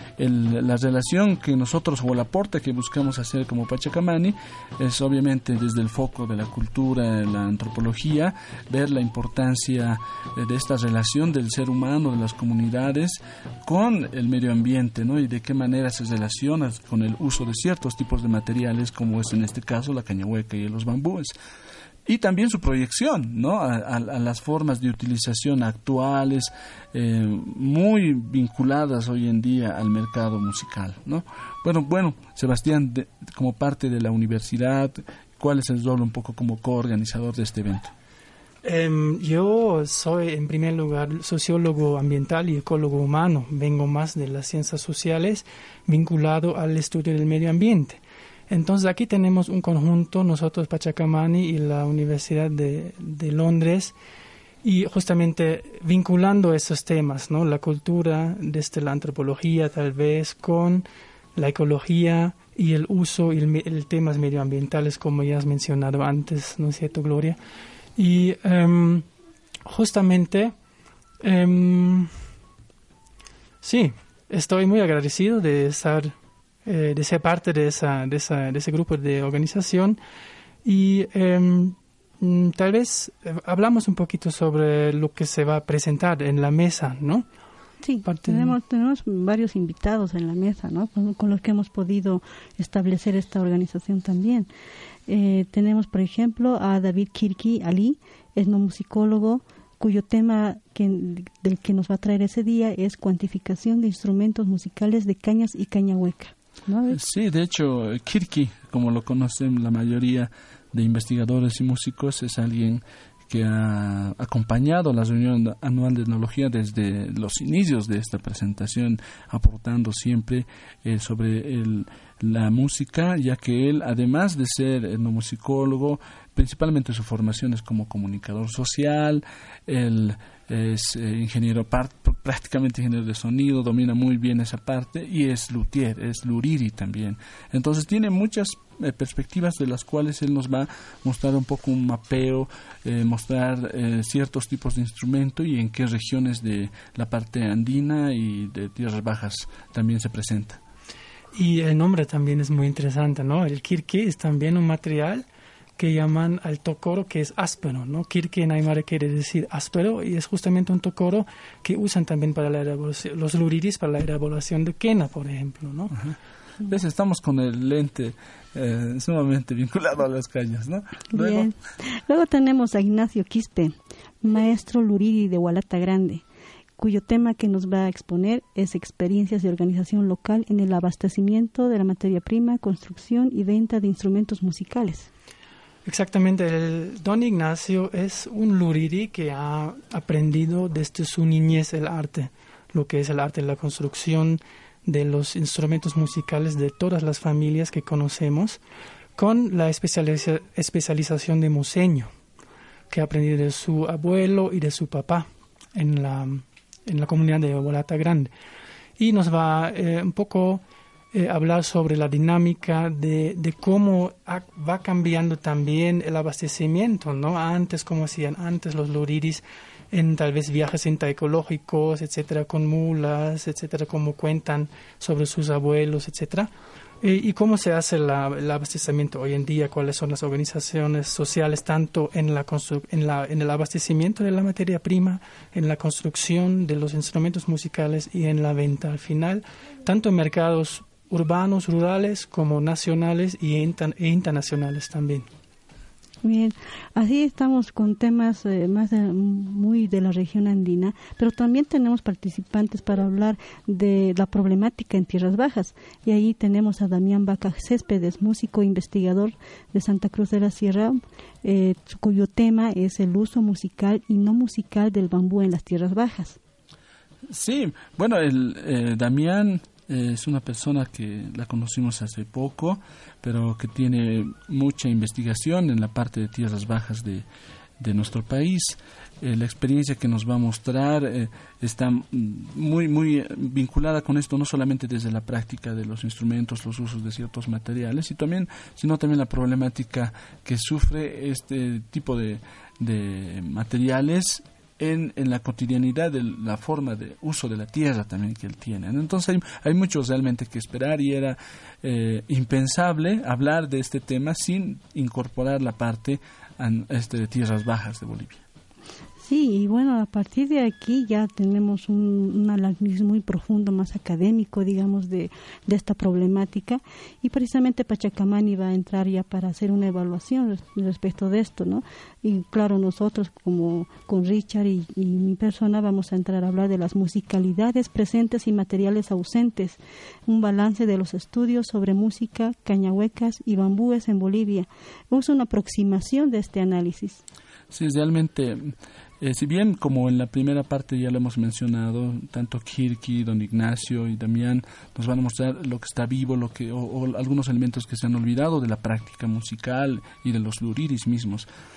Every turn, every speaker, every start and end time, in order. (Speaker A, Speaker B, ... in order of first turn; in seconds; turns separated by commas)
Speaker A: 0.2-21.3, Speaker A: 22.1-37.9, Speaker B: 38.6-53.9, Speaker B: 54.6-60.8, Speaker B: 61.4-67.4, Speaker B: 68.0-69.1, Speaker B: 69.7-70.5, Speaker B: 71.2-72.1, Speaker B: 73.6-76.1, Speaker B: 76.6-80.0, Speaker B: 80.6-87.2, Speaker C: 87.8-94.5, Speaker B: 88.0-88.5, Speaker C: 95.1-107.0, Speaker A: 106.9-150.6, Speaker B: 151.3-155.2, Speaker B: 155.8-166.0, Speaker A: 166.7-171.5, Speaker C: 171.1-176.2, Speaker C: 176.8-185.1, Speaker B: 185.8-198.6, Speaker B: 199.2-202.1, Speaker B: 202.9-208.3, Speaker B: 209.0-226.5, Speaker B: 227.0-245.3, Speaker C: 246.2-266.4, Speaker A: 267.3-277.2, Speaker A: 277.8-308.4, Speaker C: 309.2-337.2, Speaker A: 337.7-351.5